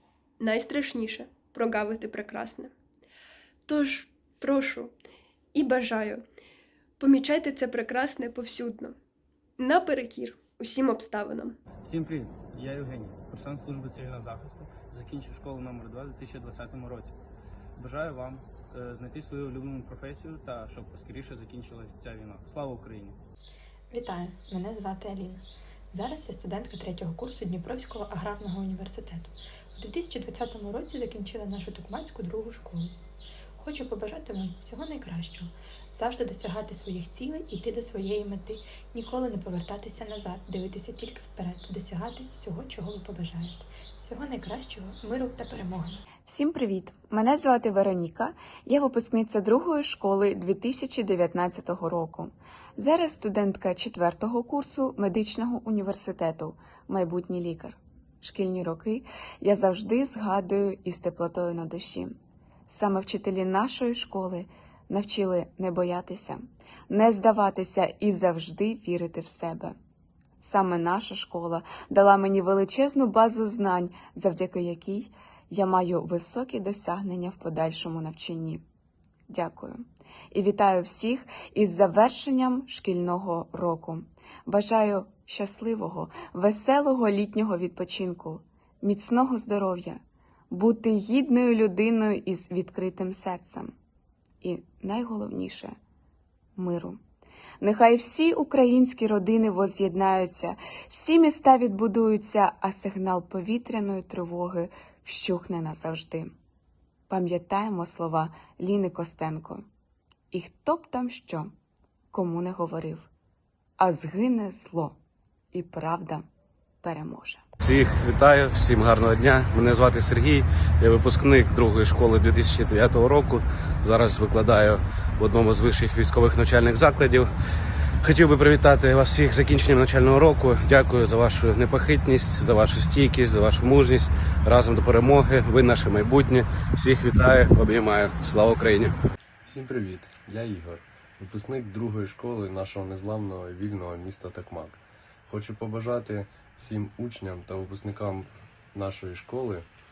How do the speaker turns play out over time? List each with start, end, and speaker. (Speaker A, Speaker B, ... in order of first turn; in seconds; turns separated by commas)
Speaker A: 0.4-2.7, Speaker A: 3.7-4.9, Speaker A: 5.5-6.2, Speaker A: 7.0-8.9, Speaker A: 9.6-11.6, Speaker B: 11.8-17.1, Speaker B: 17.8-23.2, Speaker C: 23.9-32.9, Speaker C: 33.6-46.0, Speaker D: 46.3-62.2, Speaker D: 62.7-69.8, Speaker D: 70.4-78.6, Speaker D: 79.3-90.0, Speaker D: 90.5-93.7, Speaker D: 94.4-95.8, Speaker D: 96.6-97.0, Speaker D: 97.6-106.3, Speaker D: 107.1-109.7, Speaker D: 110.3-111.5, Speaker D: 112.1-113.1, Speaker D: 113.8-115.0, Speaker D: 115.5-116.3, Speaker D: 116.8-117.4, Speaker E: 117.6-127.3, Speaker E: 128.0-138.9, Speaker F: 139.4-149.7